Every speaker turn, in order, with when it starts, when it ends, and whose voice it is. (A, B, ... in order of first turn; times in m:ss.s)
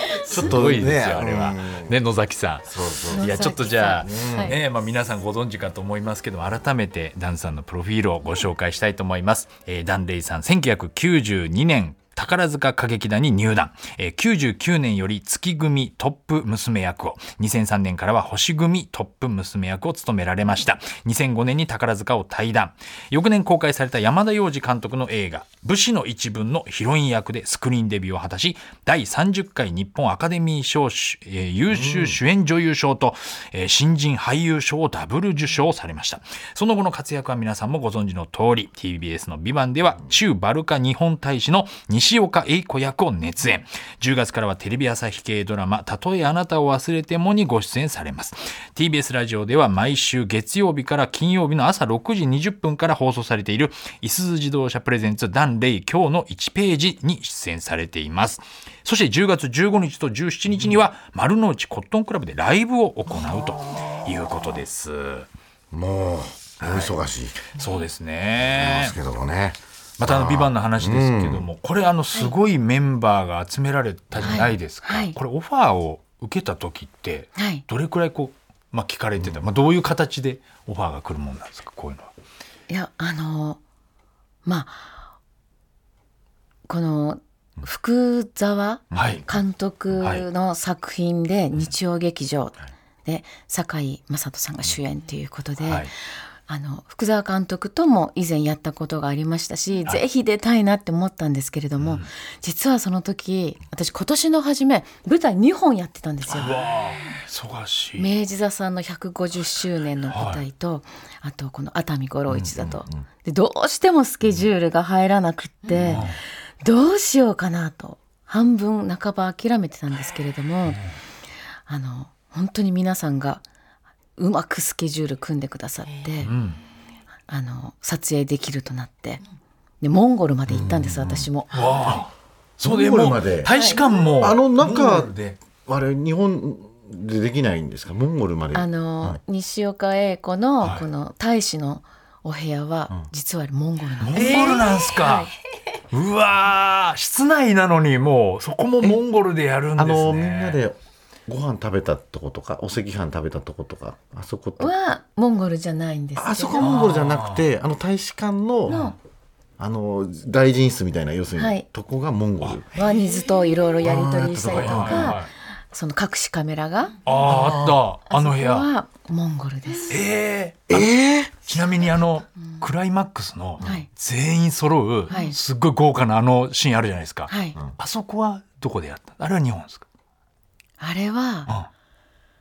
0:00.3-0:01.9 A
0:00.3-1:05.3 B
0:02.7-0:03.5 A
0:03.1-0:04.6 C
0:04.0-0:04.6 A
0:31.7-0:32.2 A
1:00.5-1:00.8 A
1:05.7-1:07.4 A
1:06.6-1:06.9 B
1:07.5-1:08.9 B
1:08.4-1:11.4 A
1:10.0-1:22.1 B
1:14.2-1:15.1 C
1:17.4-1:17.6 C
1:19.1-1:19.4 A
1:22.7-1:23.6 C
1:24.4-1:25.0 C
1:26.7-1:35.9 C
1:28.9-1:29.2 B
1:30.0-1:30.2 B
1:35.6-1:35.9 B
1:36.5-1:46.6 C
1:41.8-1:42.1 B
1:46.3-1:48.1 B
1:48.0-2:00.8 C
1:50.1-1:50.4 B
1:52.3-1:53.0 A
1:55.7-1:56.2 B
2:01.7-2:03.4 C
2:04.2-2:06.3 C
2:06.2-2:06.6 B
2:07.3-2:09.2 C
2:09.8-2:11.5 C
2:10.5-2:11.3 A
2:11.5-2:15.4 B
2:12.6-2:13.5 A
2:13.5-2:13.8 C
2:14.2-2:19.2 A
2:18.5-2:25.3 C
2:24.1-2:25.3 B
2:25.9-2:30.6 B
2:29.8-2:34.7 A
2:34.6-2:36.9 C
2:36.2-2:38.9 A
2:36.6-2:37.4 B
2:38.7-2:39.0 C
2:39.6-2:42.6 A
2:41.4-2:41.6 C
2:42.7-2:47.0 C
2:43.8-2:45.2 A
2:44.5-2:45.3 B
2:47.0-2:48.7 B
2:47.2-2:47.8 A
2:48.1-2:50.0 C
2:49.9-2:50.9 B
2:50.7-2:51.5 A
2:51.4-2:59.8 B
2:53.6-2:53.9 C
2:55.1-2:55.4 C
2:57.3-2:57.6 C
3:00.8-3:01.5 C